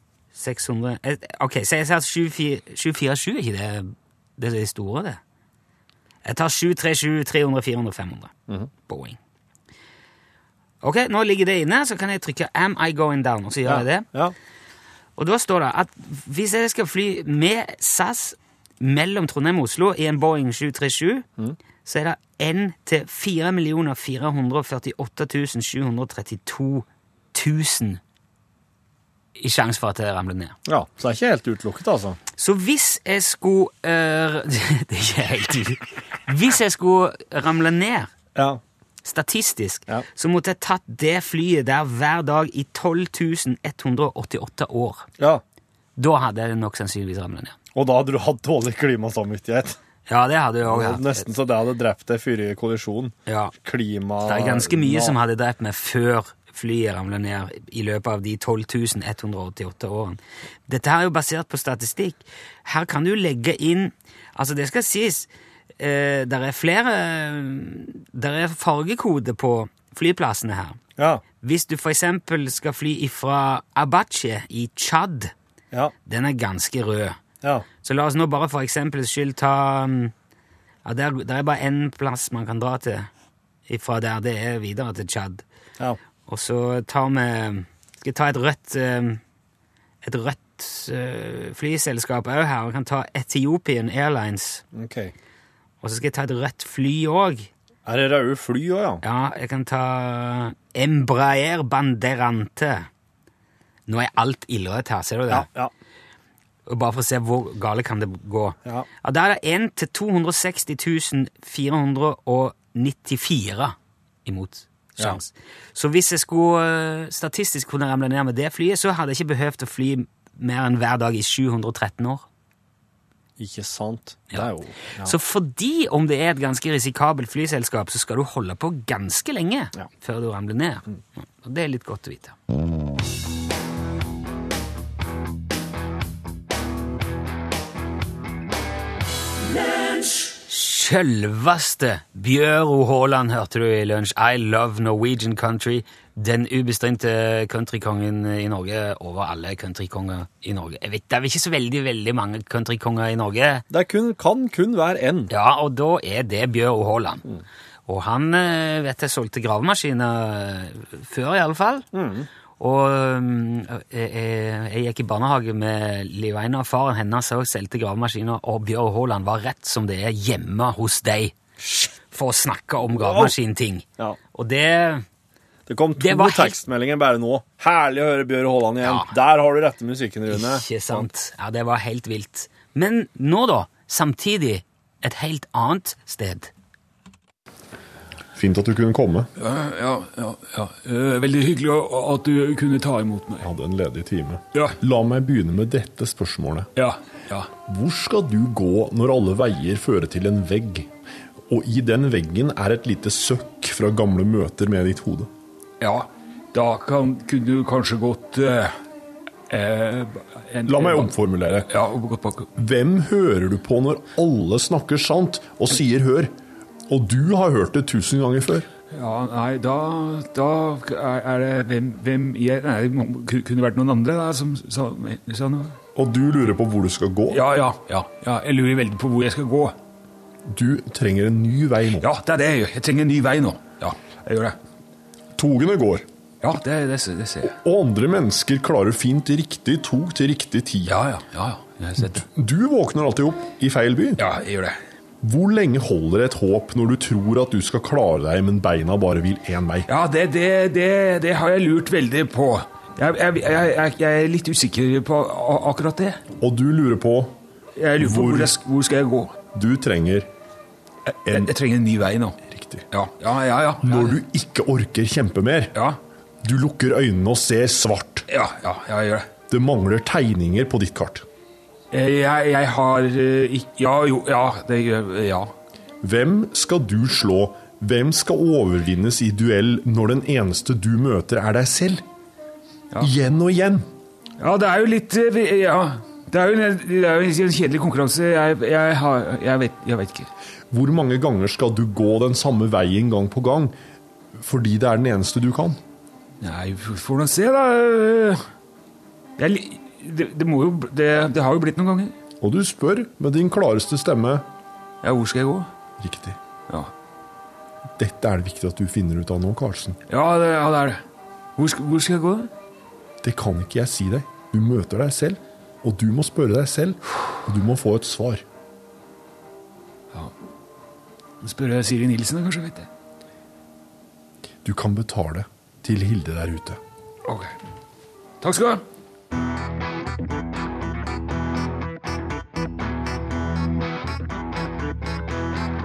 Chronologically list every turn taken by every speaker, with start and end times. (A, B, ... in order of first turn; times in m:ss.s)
0:00.3-0:05.2 A
0:06.2-0:08.3 A
0:08.9-0:09.2 A
0:10.8-0:14.1 A
0:13.6-0:14.4 B
0:15.2-0:21.3 A
0:21.8-0:28.0 A
0:29.4-0:30.6 A
0:30.7-0:32.2 B
0:32.4-0:38.1 A
0:38.4-0:38.6 B
0:39.0-0:45.1 A
0:46.0-0:47.6 A
0:47.8-0:49.8 B
0:50.1-0:51.3 A
0:50.7-0:55.2 B
0:53.3-0:53.5 A
0:54.2-1:10.8 A
1:11.0-1:11.2 B
1:11.4-1:15.3 A
1:16.1-1:17.2 A
1:17.8-1:20.1 A
1:20.8-1:23.1 A
1:23.7-1:25.4 A
1:26.3-1:29.2 A
1:30.0-1:34.6 A
1:34.7-1:35.1 B
1:35.8-1:37.5 A
1:37.9-1:39.0 B
1:39.0-1:42.9 A
1:43.9-1:45.5 A
1:45.3-1:45.7 B
1:46.7-2:02.2 A
2:03.4-2:05.2 B
2:04.3-2:12.4 A
2:20.4-2:33.6 A
2:33.7-2:35.3 B
2:35.3-2:37.2 A
2:37.9-2:41.9 A
2:41.9-2:42.3 B
2:42.6-2:51.4 A
2:52.1-2:55.0 A
2:53.0-2:53.3 B
2:55.7-3:01.1 B
2:56.0-2:56.6 A
2:58.8-2:59.1 A
3:00.3-3:06.5 A
3:08.3-3:09.3 C
3:09.4-3:13.5 D
3:13.4-3:16.7 C
3:14.5-3:14.8 D
3:16.8-3:17.5 D
3:17.6-3:20.9 C
3:21.5-3:25.3 C
3:25.8-3:28.8 D
3:29.5-3:31.1 D
3:30.7-3:31.7 C
3:31.7-3:32.5 D
3:32.6-3:36.3 C
3:36.9-3:38.7 C
3:38.9-3:45.8 D
3:46.0-3:47.4 C
3:47.3-3:49.8 D
3:50.5-3:52.1 C
3:52.0-3:54.6 D
3:55.4-3:56.1 C
3:56.4-3:57.6 D
3:57.6-4:00.9 C
4:00.8-4:02.3 D
4:02.0-4:04.2 C
4:04.2-4:04.8 D
4:05.2-4:09.9 C
4:09.9-4:16.2 D
4:16.4-4:17.4 C
4:17.8-4:19.4 D
4:18.0-4:18.6 C
4:19.5-4:20.3 C
4:21.1-4:22.4 D
4:22.5-4:22.8 C
4:22.9-4:24.2 D
4:23.8-4:25.7 C
4:25.7-4:26.0 D
4:26.4-4:28.2 C
4:28.3-4:29.3 D
4:29.5-4:31.2 C
4:31.9-4:35.5 D
4:36.0-4:42.0 C
4:43.0-4:43.9 C
4:44.4-4:50.3 D
4:50.7-4:53.8 C
4:54.4-4:55.8 C
4:56.4-4:58.4 D
4:59.4-5:02.2 D
5:02.4-5:04.4 C
5:05.0-5:05.7 D
5:06.0-5:06.4 C
5:08.0-5:10.0 C
5:10.1-5:11.0 D
5:11.6-5:12.5 D
5:13.2-5:18.4 C
5:21.4-5:22.9 D
5:24.6-5:26.8 C
5:27.3-5:27.5 D
5:28.4-5:28.8 D